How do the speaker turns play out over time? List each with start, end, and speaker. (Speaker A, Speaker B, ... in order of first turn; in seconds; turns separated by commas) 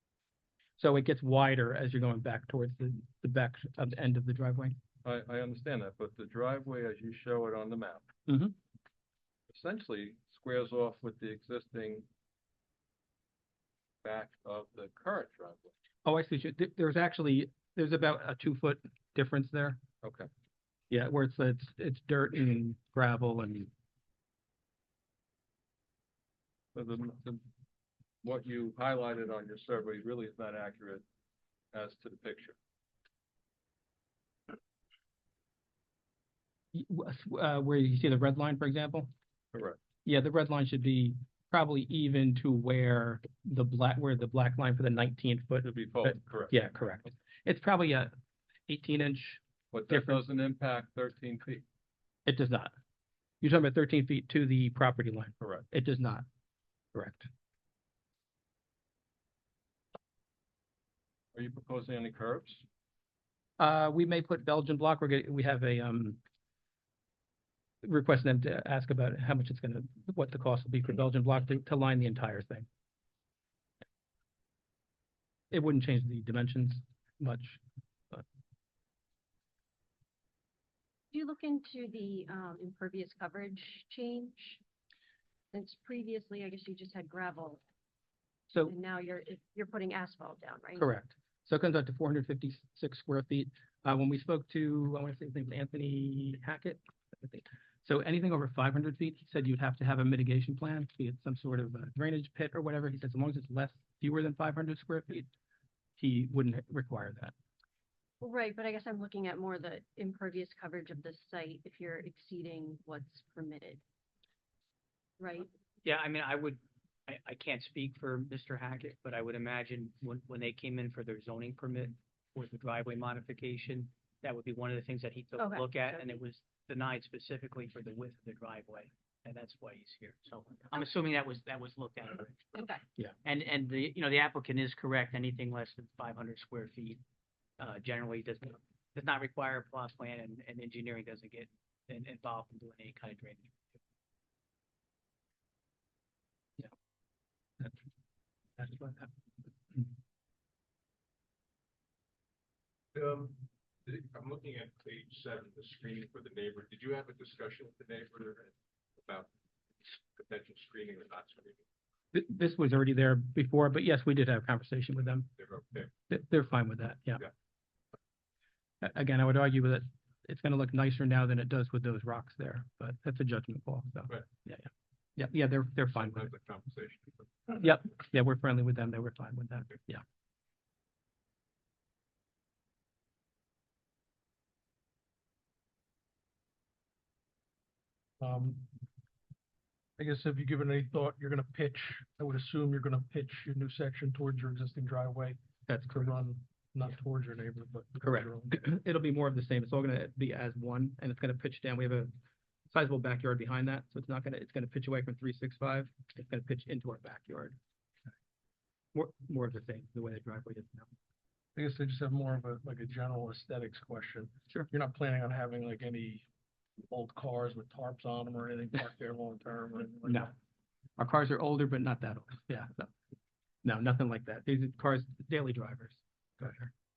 Speaker A: 0.8-4.8, Speaker B: 5.0-8.1, Speaker A: 8.3-8.5, Speaker B: 9.5-12.1, Speaker B: 14.0-15.7, Speaker A: 16.0-19.8, Speaker A: 20.9-23.7, Speaker B: 26.7-27.4, Speaker B: 28.2-31.0, Speaker B: 31.7-32.6, Speaker A: 36.7-39.1, Speaker B: 39.5-39.8, Speaker A: 40.0-48.1, Speaker B: 45.6-46.6, Speaker A: 48.7-50.2, Speaker B: 49.7-51.6, Speaker A: 52.2-52.7, Speaker A: 53.4-56.2, Speaker B: 55.4-55.6, Speaker A: 56.9-57.3, Speaker B: 61.3-62.6, Speaker A: 63.6-66.2, Speaker A: 67.8-72.7, Speaker A: 75.5-77.6, Speaker C: 81.1-84.6, Speaker C: 85.5-87.6, Speaker C: 88.6-90.8, Speaker A: 90.8-105.3, Speaker A: 106.0-107.3, Speaker C: 108.2-113.8, Speaker C: 115.2-115.5, Speaker D: 115.8-132.5, Speaker C: 125.4-126.1, Speaker C: 132.5-132.8, Speaker D: 133.2-137.0, Speaker D: 137.6-143.5, Speaker A: 148.6-149.1, Speaker E: 152.9-159.3, Speaker E: 159.8-161.6, Speaker A: 162.1-165.3, Speaker E: 165.4-165.9, Speaker A: 166.1-167.2, Speaker A: 168.8-176.3, Speaker E: 175.9-177.6, Speaker A: 177.6-180.0, Speaker F: 188.2-188.7, Speaker F: 190.0-195.4, Speaker A: 195.7-196.1, Speaker F: 195.9-198.6, Speaker A: 198.0-202.1, Speaker A: 202.7-207.6, Speaker A: 208.9-210.9, Speaker F: 211.6-216.2, Speaker F: 216.8-220.3, Speaker A: 220.0-220.3, Speaker A: 221.0-222.9, Speaker A: 223.6-226.7